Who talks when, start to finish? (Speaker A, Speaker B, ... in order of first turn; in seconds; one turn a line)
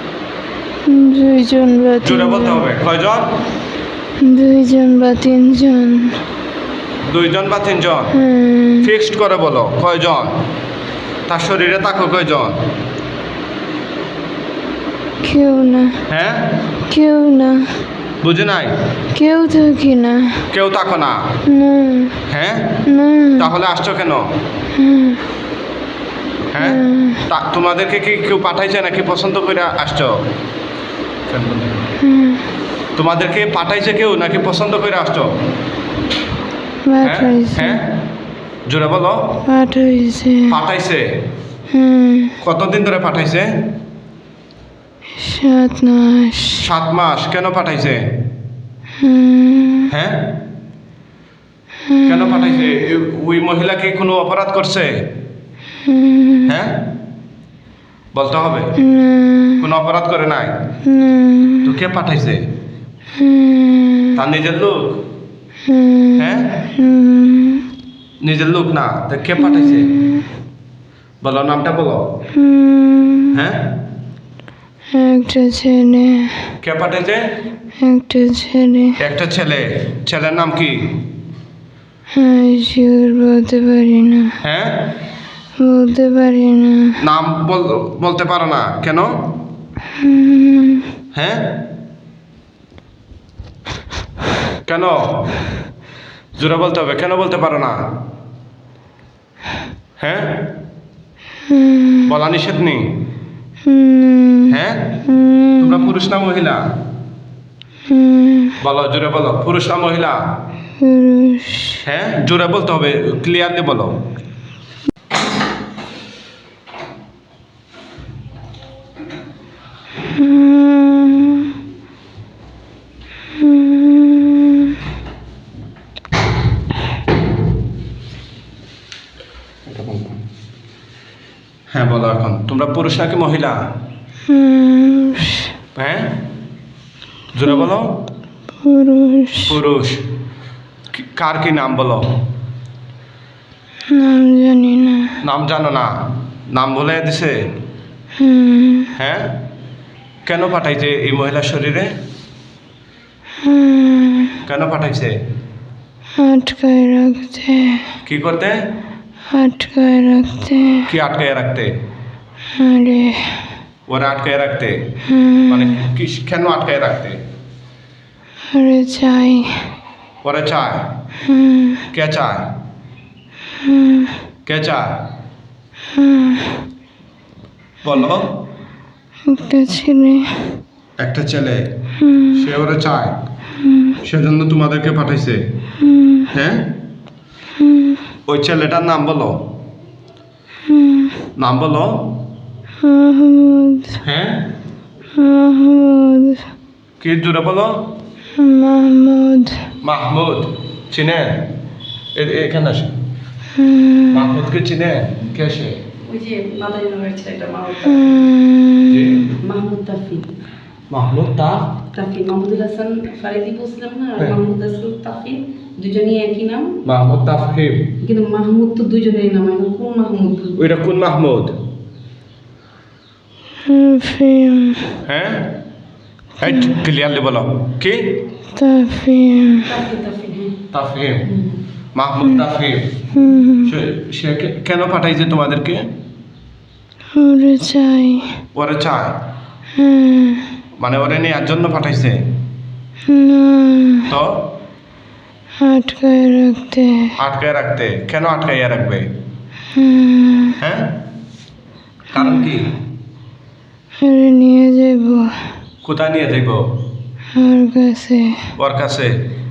Speaker A: 0.8-2.6
Speaker B: 2.0-3.3
Speaker A: 4.2-6.2
Speaker B: 7.0-8.1
Speaker A: 8.1-8.9
Speaker B: 8.8-10.3
Speaker B: 11.3-12.6
Speaker A: 15.2-16.0
Speaker B: 16.1-16.6
Speaker A: 16.9-17.7
Speaker B: 18.2-18.7
Speaker A: 19.1-20.4
Speaker B: 20.5-21.2
Speaker A: 21.4-22.2
Speaker B: 22.3-22.8
Speaker A: 22.9-23.5
Speaker B: 23.4-24.3
Speaker A: 24.7-25.2
Speaker B: 26.5-30.2
Speaker A: 26.6-27.2
Speaker B: 31.3-31.9
Speaker A: 32.0-32.5
Speaker B: 33.0-35.3
Speaker A: 36.9-37.8
Speaker B: 37.0-37.9
Speaker B: 38.7-39.4
Speaker A: 39.5-40.5
Speaker B: 40.5-41.0
Speaker A: 41.7-42.3
Speaker B: 42.4-43.5
Speaker A: 45.2-46.6
Speaker B: 46.6-48.0
Speaker A: 49.0-49.9
Speaker B: 49.9-50.4
Speaker A: 51.9-52.8
Speaker B: 52.0-55.1
Speaker A: 55.8-56.5
Speaker B: 56.5-56.9
Speaker B: 58.1-58.8
Speaker A: 58.8-59.7
Speaker B: 59.6-60.5
Speaker A: 60.8-61.7
Speaker B: 61.6-62.4
Speaker A: 63.1-64.2
Speaker B: 64.1-65.0
Speaker A: 65.6-67.7
Speaker B: 66.2-66.6
Speaker B: 68.2-70.0
Speaker A: 69.4-70.2
Speaker B: 71.2-72.0
Speaker A: 72.3-73.4
Speaker B: 73.3-73.7
Speaker A: 74.9-76.5
Speaker B: 76.6-77.2
Speaker A: 77.8-79.0
Speaker B: 79.0-80.9
Speaker A: 82.1-84.3
Speaker B: 84.4-84.9
Speaker A: 85.6-87.0
Speaker B: 87.0-89.3
Speaker A: 89.9-90.9
Speaker B: 91.1-91.6
Speaker B: 94.7-95.3
Speaker B: 96.4-97.8
Speaker B: 100.0-100.5
Speaker A: 101.5-102.1
Speaker B: 102.0-102.9
Speaker A: 103.6-104.5
Speaker B: 104.5-105.0
Speaker A: 105.0-105.9
Speaker B: 105.6-106.6
Speaker A: 107.9-108.6
Speaker B: 108.6-110.3
Speaker A: 110.8-111.8
Speaker B: 111.8-114.0
Speaker A: 120.0-121.5
Speaker A: 123.3-124.8
Speaker B: 129.7-130.2
Speaker B: 131.7-133.7
Speaker A: 134.3-135.5
Speaker B: 135.8-136.2
Speaker B: 137.3-137.9
Speaker A: 138.6-139.6
Speaker B: 139.5-140.0
Speaker B: 140.9-142.2
Speaker A: 143.9-145.1
Speaker B: 145.2-147.4
Speaker A: 148.2-148.9
Speaker B: 149.0-149.3
Speaker B: 150.2-151.9
Speaker A: 153.4-154.4
Speaker B: 154.4-155.1
Speaker A: 156.2-157.8
Speaker B: 158.1-158.6
Speaker A: 159.3-160.9
Speaker B: 160.9-161.7
Speaker A: 162.6-163.4
Speaker B: 163.9-164.8
Speaker A: 165.0-165.9
Speaker B: 165.5-167.2
Speaker A: 168.5-169.6
Speaker B: 170.2-170.9
Speaker A: 171.2-171.9
Speaker B: 171.9-172.5
Speaker A: 173.5-174.2
Speaker B: 174.4-175.0
Speaker A: 175.9-176.6
Speaker B: 177.8-178.3
Speaker A: 179.3-180.4
Speaker B: 181.0-181.6
Speaker A: 182.0-182.5
Speaker B: 182.3-183.2
Speaker A: 183.6-184.0
Speaker B: 184.0-185.4
Speaker A: 185.8-186.3
Speaker B: 186.3-186.7
Speaker A: 187.6-188.0
Speaker B: 188.3-189.4
Speaker A: 190.7-191.2
Speaker B: 191.4-192.1
Speaker A: 192.8-194.0
Speaker B: 194.0-194.5
Speaker A: 195.1-196.4
Speaker B: 197.0-197.9
Speaker A: 198.3-199.7
Speaker B: 199.8-201.5
Speaker B: 202.1-202.9
Speaker A: 203.5-204.3
Speaker B: 204.1-205.8
Speaker C: 206.0-208.1
Speaker A: 207.8-209.2
Speaker B: 208.9-209.3
Speaker C: 209.4-210.3
Speaker B: 210.9-211.8
Speaker C: 211.9-216.8
Speaker B: 216.8-217.9
Speaker C: 218.0-220.6
Speaker B: 220.6-221.6
Speaker A: 223.6-224.9
Speaker B: 225.0-225.5
Speaker B: 226.4-228.2
Speaker A: 226.4-226.8
Speaker A: 228.5-229.7
Speaker C: 229.7-230.6
Speaker B: 230.7-231.3
Speaker C: 231.2-231.6
Speaker B: 231.9-233.0
Speaker A: 233.1-233.7
Speaker B: 233.6-235.9
Speaker A: 237.1-238.4
Speaker B: 238.5-239.2
Speaker A: 239.7-240.5
Speaker B: 240.8-242.2
Speaker A: 243.1-244.1
Speaker B: 244.1-244.4
Speaker A: 245.6-247.1
Speaker B: 247.2-249.1
Speaker A: 249.7-250.6
Speaker B: 250.6-251.0
Speaker B: 252.1-252.7
Speaker A: 252.1-252.5
Speaker A: 254.0-255.4
Speaker B: 255.8-256.6
Speaker A: 257.3-258.5
Speaker B: 258.6-259.1